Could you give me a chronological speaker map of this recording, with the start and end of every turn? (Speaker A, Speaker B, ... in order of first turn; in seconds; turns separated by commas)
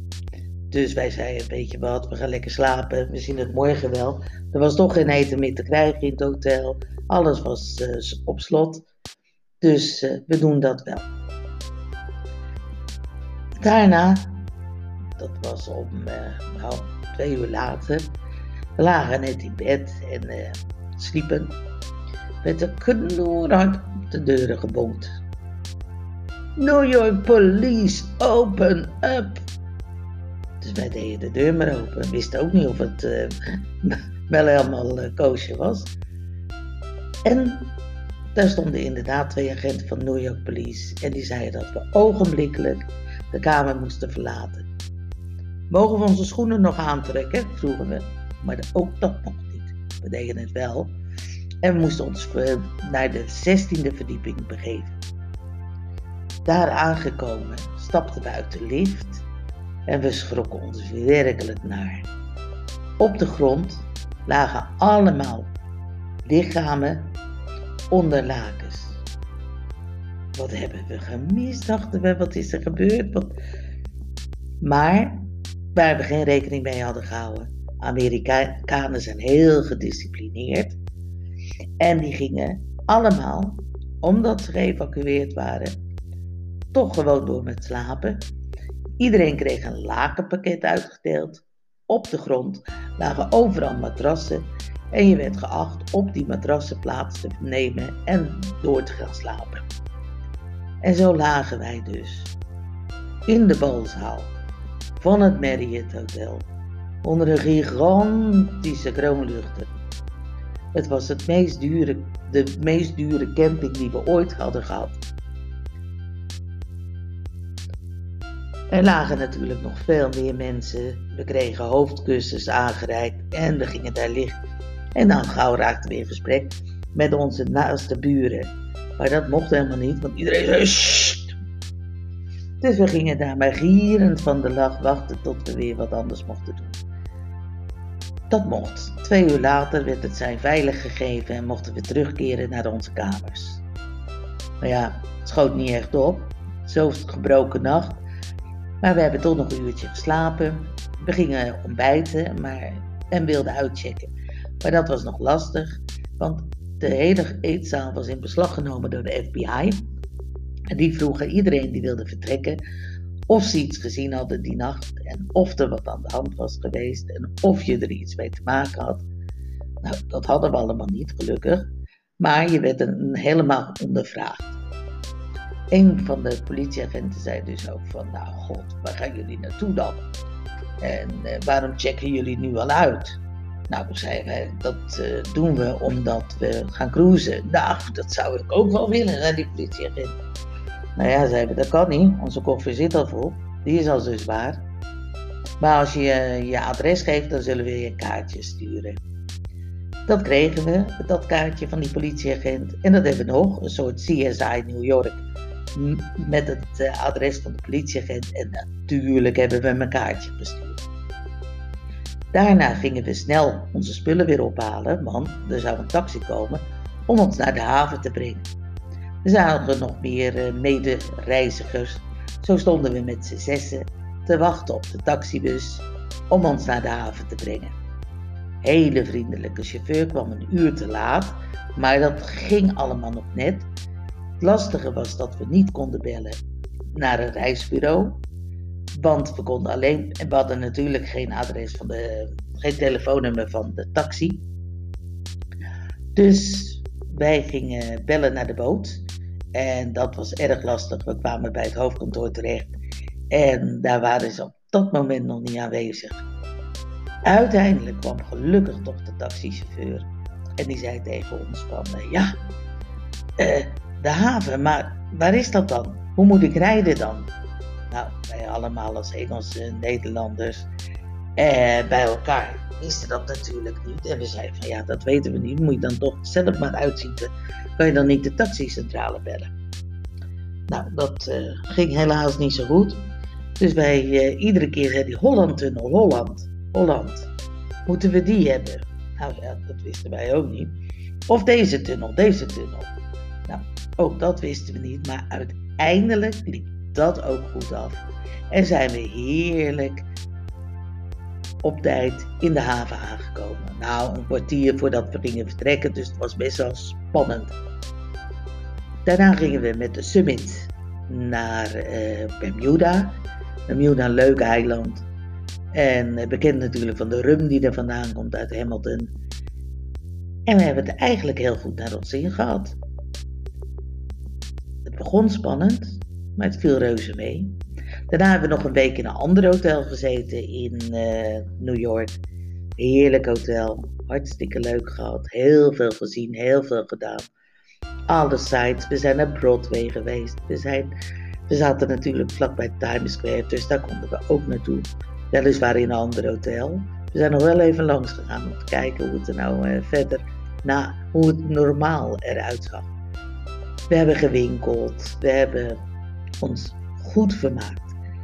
Speaker A: 0.7-8.9, Speaker A: 9.6-11.1, Speaker A: 13.6-14.4, Speaker A: 15.2-18.1, Speaker A: 18.8-21.6, Speaker A: 22.4-25.2, Speaker A: 26.6-29.4, Speaker A: 30.6-35.9, Speaker A: 37.2-37.8, Speaker A: 38.4-44.7, Speaker A: 45.7-51.0, Speaker A: 51.6-55.0, Speaker A: 56.5-59.2, Speaker A: 59.9-62.1, Speaker A: 63.0-65.5, Speaker A: 66.3-67.1, Speaker A: 67.9-69.0, Speaker A: 70.4-73.4, Speaker A: 74.6-80.8, Speaker A: 81.8-85.8, Speaker A: 86.7-88.2, Speaker A: 89.0-99.7, Speaker A: 100.8-102.3, Speaker A: 103.3-104.3, Speaker A: 105.0-106.5, Speaker A: 107.0-109.8, Speaker A: 110.8-115.0, Speaker A: 118.7-124.4, Speaker A: 125.0-131.4, Speaker A: 132.6-136.8, Speaker A: 138.3-143.6, Speaker A: 144.6-148.0, Speaker A: 148.8-159.8, Speaker A: 160.7-162.6, Speaker A: 163.3-169.1, Speaker A: 169.8-171.7, Speaker A: 172.2-174.6, Speaker A: 175.7-180.0, Speaker A: 180.8-183.2, Speaker A: 183.7-190.2, Speaker A: 191.0-194.6, Speaker A: 195.6-199.0, Speaker A: 200.1-205.2, Speaker A: 205.8-210.8, Speaker A: 212.3-218.5, Speaker A: 219.2-227.8, Speaker A: 228.6-233.7, Speaker A: 234.4-236.4, Speaker A: 236.9-238.2, Speaker A: 238.9-244.4, Speaker A: 246.2-249.0, Speaker A: 249.6-252.7, Speaker A: 253.3-256.2, Speaker A: 257.2-260.1, Speaker A: 260.6-262.4, Speaker A: 263.4-267.3, Speaker A: 267.9-270.7, Speaker A: 271.4-279.5, Speaker A: 280.7-283.0, Speaker A: 283.6-287.3, Speaker A: 287.9-290.7, Speaker A: 291.3-292.9, Speaker A: 293.5-300.1, Speaker A: 301.6-307.6, Speaker A: 309.1-313.2, Speaker A: 313.7-315.0, Speaker A: 315.7-319.1, Speaker A: 320.5-322.8, Speaker A: 324.9-327.5, Speaker A: 328.1-332.2, Speaker A: 332.8-337.3, Speaker A: 338.1-340.9, Speaker A: 341.5-352.9, Speaker A: 353.9-355.8, Speaker A: 356.4-358.0